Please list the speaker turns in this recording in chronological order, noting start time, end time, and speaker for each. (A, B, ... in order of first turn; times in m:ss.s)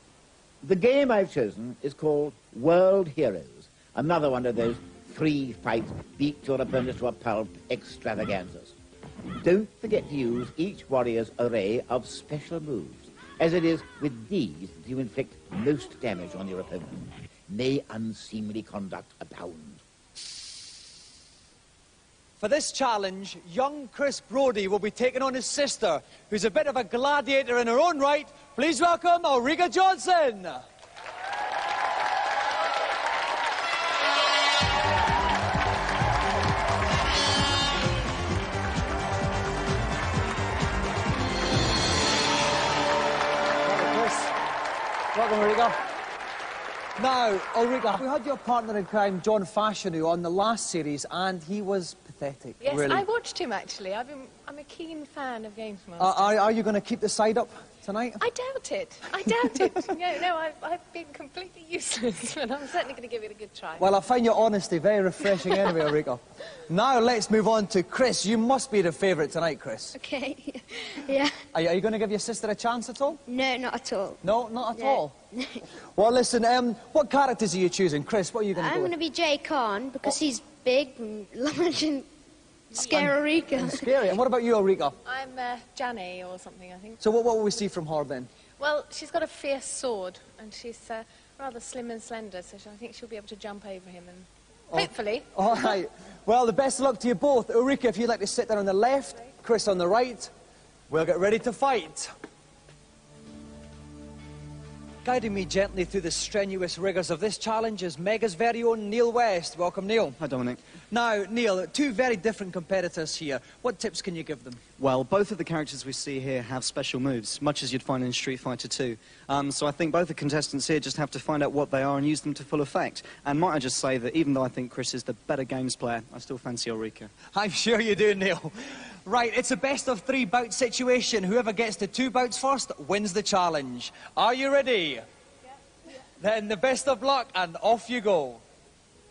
0:00.6-0:08.8 A
0:09.4-0:19.8 A
0:22.4-0:30.6 B
0:43.6-0:44.3 B
0:45.1-0:45.8 B
0:47.0-0:53.0 B
0:52.6-0:56.4 C
0:56.0-0:58.2 B
0:58.2-1:04.0 C
1:03.8-1:10.0 B
1:05.3-1:05.7 D
1:09.9-1:11.3 D
1:11.5-1:13.2 B
1:13.2-1:14.2 D
1:14.2-1:15.1 B
1:14.7-1:15.6 D
1:15.9-1:18.9 B
1:18.5-1:22.1 D
1:22.7-1:23.9 D
1:22.8-1:25.0 B
1:25.0-1:27.0 C
1:27.0-1:28.3 B
1:28.6-1:35.7 C
1:34.7-1:40.3 B
1:40.9-1:42.1 B
1:45.0-1:50.2 B
1:50.2-1:50.6 E
1:50.9-1:54.6 B
1:54.8-2:07.1 E
2:07.3-2:08.5 B
2:09.0-2:15.0 B
2:16.2-2:18.4 B